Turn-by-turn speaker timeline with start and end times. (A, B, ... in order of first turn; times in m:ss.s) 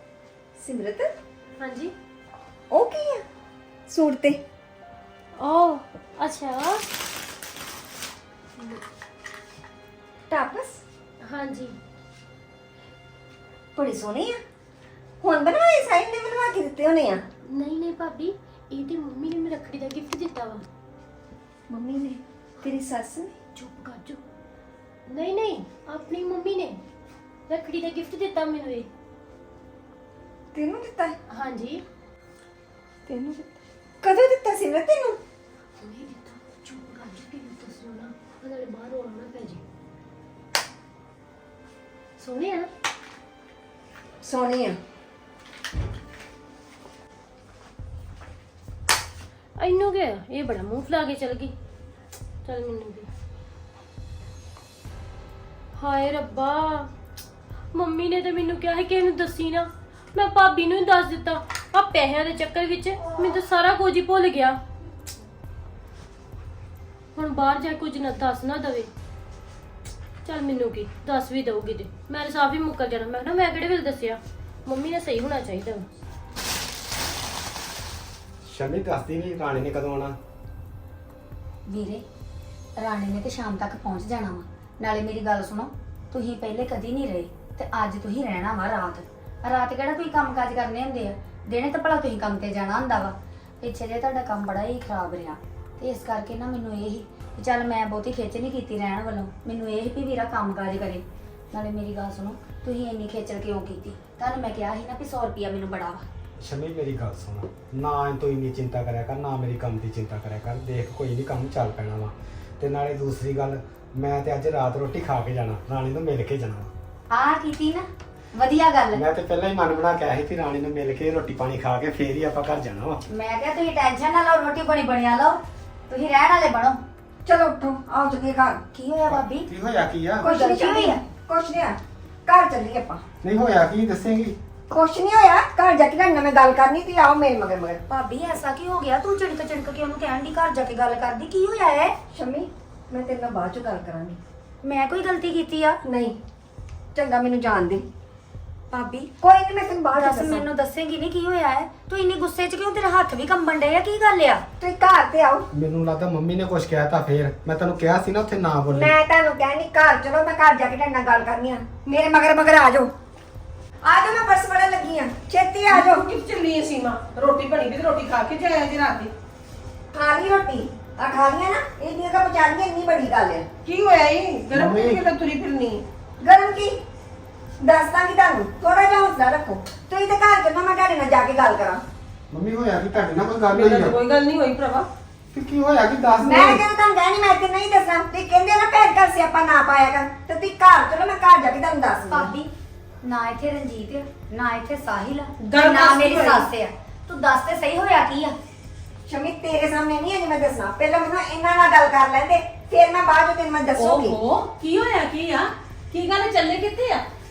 0:00.6-0:01.1 A
0:01.6-0:01.9 B
0:02.7-0:03.2 A
0:03.9-0:04.4 A
0:05.4-0:06.8 B
0:10.3-0:10.8 A
0:11.2-0:11.7 B
0:13.7-0:14.4 A
0:15.2-0:17.2 A
0:17.5-0:20.6 B
0:21.7-0:23.3 A
0:23.5-0:24.2 B
0:25.1-0:26.8 B
0:27.5-0:28.9 B
0:30.5-0:31.1 A
0:31.3-0:31.8 B
0:33.1-0:33.4 A
0:34.0-0:35.2 A
0:35.8-0:39.6 B
0:42.2-0:42.7 B
0:44.4-0:44.7 A
0:49.6-0:51.5 B
0:52.4-0:53.1 B
0:55.8-0:56.9 B
0:57.7-1:04.6 B
1:07.2-1:08.9 B
1:10.2-1:15.9 B
1:18.4-1:20.2 C
1:21.7-1:22.0 D
1:22.8-1:46.1 D
1:46.4-1:56.7 C
1:57.1-1:59.0 D
1:58.9-2:03.0 C
2:03.1-2:06.8 D
2:07.2-2:08.6 A
2:08.7-2:09.5 D
2:09.1-2:10.3 C
2:10.2-2:13.0 A
2:10.2-2:11.0 D
2:13.2-2:14.4 C
2:14.7-2:17.8 A
2:17.9-2:22.0 D
2:22.1-2:24.2 A
2:24.6-2:25.8 D
2:25.8-2:26.2 E
2:26.9-2:27.8 A
2:28.7-2:29.1 D
2:29.2-2:30.5 A
2:29.9-2:34.4 D
2:34.6-2:35.4 A
2:35.5-2:38.9 C
2:38.7-2:42.9 A
2:43.8-2:46.0 A
2:45.7-2:49.1 E
2:49.9-2:53.5 A
2:53.6-2:55.8 E
2:54.5-2:55.0 C
2:56.2-2:56.8 A
2:57.6-3:01.8 A
3:02.3-3:04.0 C
3:03.5-3:04.9 E
3:05.3-3:06.6 C
3:06.2-3:12.3 A
3:12.1-3:12.5 D
3:13.0-3:18.4 D
3:15.4-3:16.5 E
3:19.1-3:24.2 A
3:23.8-3:27.0 F